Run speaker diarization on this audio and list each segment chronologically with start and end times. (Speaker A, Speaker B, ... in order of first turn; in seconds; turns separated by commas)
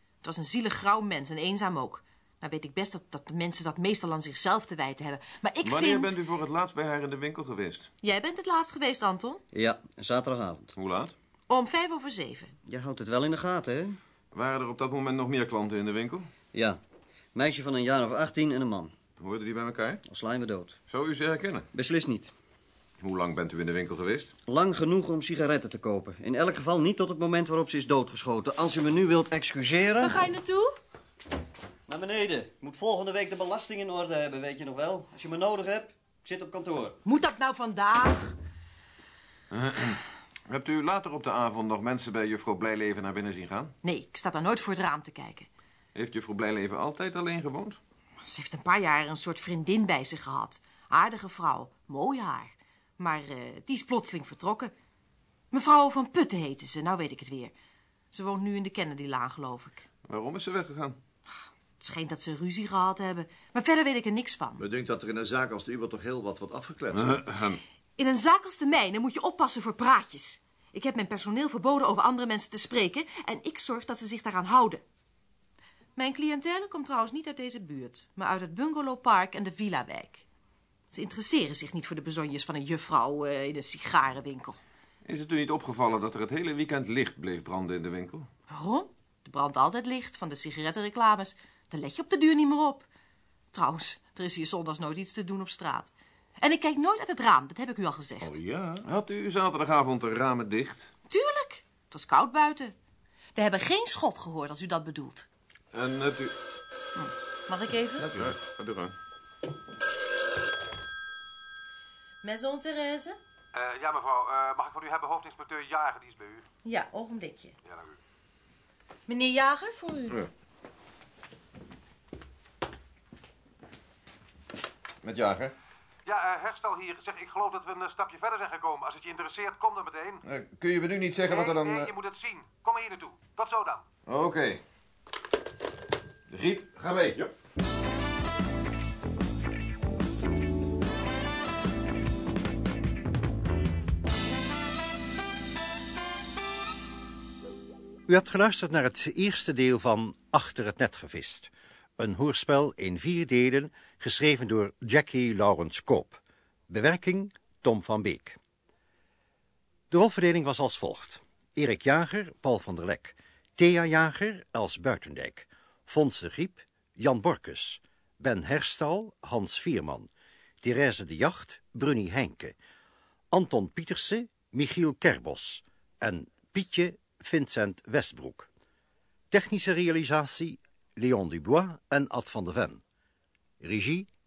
Speaker A: 0.2-6.2, Speaker B: 5.6-7.9, Speaker A: 8.0-9.4, Speaker C: 9.5-10.7, Speaker B: 10.8-11.1, Speaker A: 11.5-12.6, Speaker C: 12.7-14.0, Speaker B: 14.3-16.3, Speaker C: 16.5-16.8, Speaker C: 17.4-18.9, Speaker B: 19.2-20.0, Speaker C: 20.1-20.8, Speaker B: 20.9-21.7, Speaker C: 21.7-22.3, Speaker B: 23.0-24.3, Speaker C: 24.5-30.3, Speaker A: 30.0-30.8, Speaker C: 31.9-37.0, Speaker A: 37.0-38.4, Speaker B: 39.5-43.7, Speaker A: 43.8-45.5, Speaker B: 45.9-47.8, Speaker A: 48.2-54.7, Speaker A: 55.5-57.5, Speaker A: 58.1-59.9, Speaker B: 60.0-61.0, Speaker A: 61.8-64.7, Speaker D: 64.6-67.2, Speaker B: 66.9-67.6, Speaker A: 68.0-74.8, Speaker A: 76.0-80.3, Speaker A: 80.9-84.6, Speaker B: 85.0-88.3, Speaker A: 88.5-92.9, Speaker A: 93.5-98.4, Speaker D: 98.2-98.9, Speaker B: 98.8-100.9, Speaker A: 101.1-102.7, Speaker A: 103.3-105.3, Speaker B: 105.7-106.4, Speaker A: 107.0-108.1, Speaker B: 108.0-109.0, Speaker A: 112.2-113.2, Speaker E: 113.5-116.5, Speaker A: 116.6-117.6, Speaker E: 117.7-117.9, Speaker A: 119.1-120.2, Speaker B: 125.0-125.5, Speaker E: 126.1-130.2, Speaker B: 130.2-131.9, Speaker E: 131.3-133.8, Speaker B: 134.1-134.6, Speaker B: 136.3-137.2, Speaker F: 148.1-158.4, Speaker F: 159.9-170.1, Speaker F: 170.6-172.6, Speaker F: 173.3-178.5, Speaker F: 179.3-182.8, Speaker F: 183.6-184.1